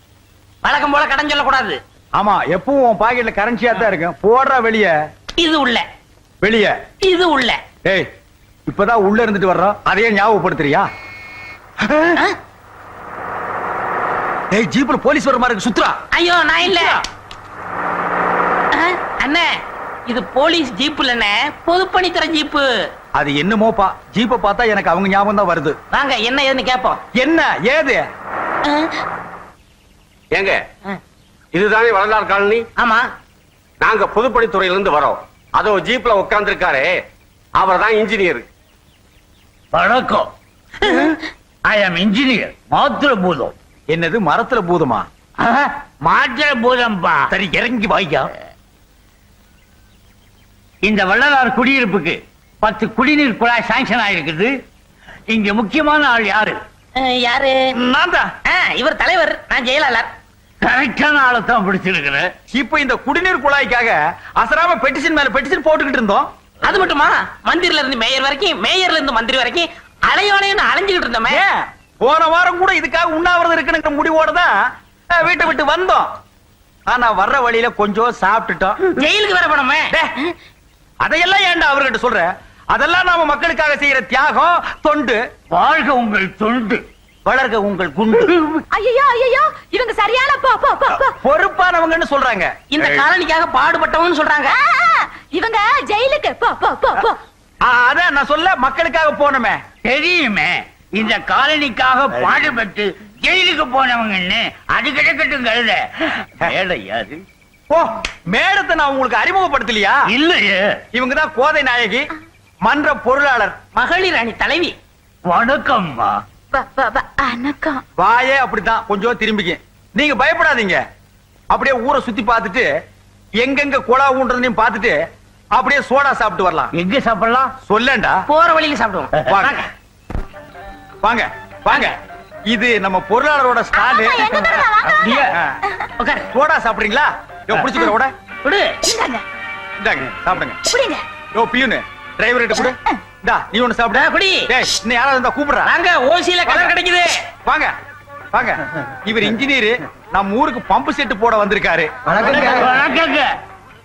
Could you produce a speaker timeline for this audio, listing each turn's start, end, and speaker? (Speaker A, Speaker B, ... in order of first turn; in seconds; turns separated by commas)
Speaker A: 0.6-1.8, Speaker B: 2.2-4.9, Speaker A: 5.4-5.8, Speaker B: 6.4-6.7, Speaker A: 7.0-7.6, Speaker B: 8.7-10.9, Speaker B: 11.8-12.1, Speaker B: 14.5-15.9, Speaker A: 16.1-17.0, Speaker A: 18.7-19.5, Speaker A: 20.1-22.6, Speaker B: 23.1-25.8, Speaker A: 25.9-27.0, Speaker B: 27.1-28.0, Speaker A: 28.6-29.0, Speaker C: 30.3-30.6, Speaker C: 31.5-32.7, Speaker A: 32.8-33.0, Speaker C: 33.8-37.0, Speaker C: 37.6-38.5, Speaker D: 39.7-40.3, Speaker D: 41.6-43.5, Speaker B: 43.9-45.1, Speaker D: 45.4-47.2, Speaker B: 47.3-48.3, Speaker D: 50.8-54.5, Speaker D: 55.3-56.6, Speaker A: 57.0-57.5, Speaker B: 57.8-58.3, Speaker A: 58.5-60.1, Speaker D: 60.6-62.3, Speaker B: 62.5-66.3, Speaker A: 66.6-71.4, Speaker B: 71.3-74.5, Speaker B: 75.1-76.1, Speaker B: 76.9-78.8, Speaker A: 78.9-79.9, Speaker B: 81.0-85.2, Speaker D: 85.5-86.8, Speaker B: 87.2-88.6, Speaker E: 88.7-91.1, Speaker B: 90.9-92.5, Speaker A: 92.7-94.6, Speaker E: 94.6-97.2, Speaker B: 97.6-99.6, Speaker D: 99.8-105.9, Speaker B: 102.1-102.4, Speaker D: 106.4-107.2, Speaker B: 107.7-110.1, Speaker D: 110.1-110.7, Speaker B: 110.9-112.1, Speaker B: 112.6-113.5, Speaker A: 113.7-114.7, Speaker D: 115.3-116.2, Speaker E: 116.5-117.8, Speaker B: 118.0-120.8, Speaker B: 121.5-122.7, Speaker B: 123.4-125.0, Speaker B: 125.5-126.7, Speaker D: 126.7-127.5, Speaker B: 127.6-128.2, Speaker A: 128.3-129.7, Speaker B: 129.2-129.6, Speaker B: 131.0-131.9, Speaker A: 131.7-131.9, Speaker B: 132.5-135.5, Speaker E: 133.7-135.2, Speaker A: 136.0-136.3, Speaker B: 136.3-138.1, Speaker A: 138.4-138.8, Speaker E: 138.8-139.2, Speaker B: 139.8-140.6, Speaker E: 140.7-141.0, Speaker B: 141.3-145.7, Speaker A: 143.9-144.5, Speaker A: 145.6-147.1, Speaker B: 146.5-146.8, Speaker B: 147.4-147.7, Speaker B: 148.3-152.6, Speaker D: 152.6-153.3